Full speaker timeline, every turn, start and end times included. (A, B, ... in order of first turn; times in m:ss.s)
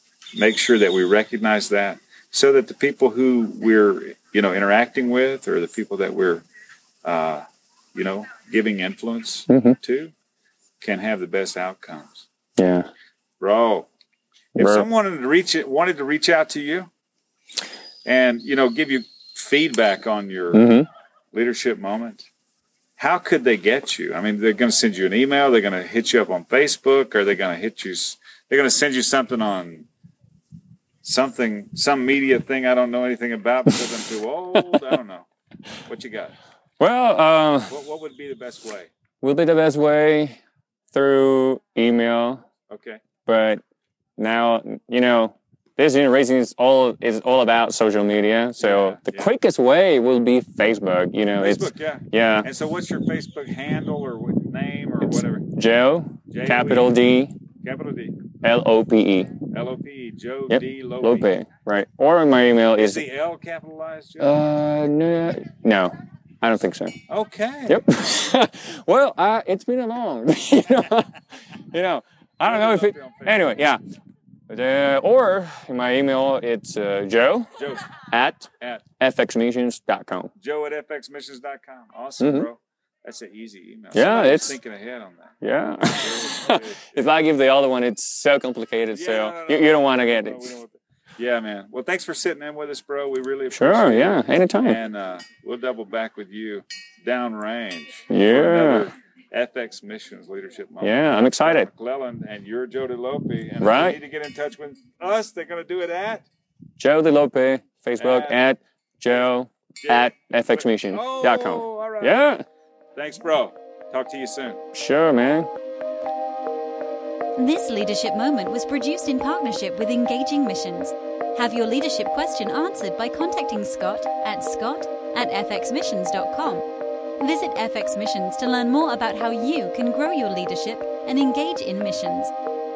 0:00.4-0:06.5 A
0:07.0-0:10.1 A
0:09.5-0:09.8 B
0:10.8-0:12.3 A
0:12.6-0:12.9 B
0:13.4-0:13.9 A
0:14.6-0:14.9 B
0:14.6-0:16.9 A
0:18.0-0:20.7 A
0:20.5-0:20.9 B
0:21.3-0:22.3 A
0:23.0-0:29.9 A
0:31.0-0:35.3 A
0:35.8-0:36.3 A
0:36.8-0:37.7 B
0:37.7-0:38.9 A
0:39.2-0:40.4 B
0:40.9-0:42.4 B
0:42.7-0:43.0 A
0:43.2-0:43.6 B
0:44.2-0:52.5 B
0:48.6-0:49.3 A
0:51.4-0:55.5 A
0:55.0-0:57.4 B
0:56.3-0:57.0 A
0:57.6-0:58.2 A
0:58.4-0:59.3 B
0:59.5-1:01.3 A
1:00.5-1:03.0 B
1:02.8-1:04.4 A
1:04.2-1:07.0 B
1:07.1-1:07.8 A
1:07.7-1:11.1 B
1:11.7-1:13.8 B
1:12.4-1:13.6 A
1:14.5-1:17.5 B
1:17.6-1:17.9 A
1:18.1-1:20.3 B
1:20.4-1:25.4 A
1:22.2-1:22.5 B
1:23.9-1:24.6 B
1:25.4-1:30.6 B
1:25.9-1:27.1 A
1:28.9-1:46.2 A
1:33.5-1:34.8 B
1:38.1-1:38.9 B
1:40.8-1:41.7 B
1:43.6-1:44.0 B
1:46.8-1:52.4 B
1:48.0-1:48.4 A
1:49.8-1:52.3 A
1:53.0-1:54.6 A
1:54.7-1:55.5 B
1:57.4-2:06.7 C
2:07.2-2:12.3 C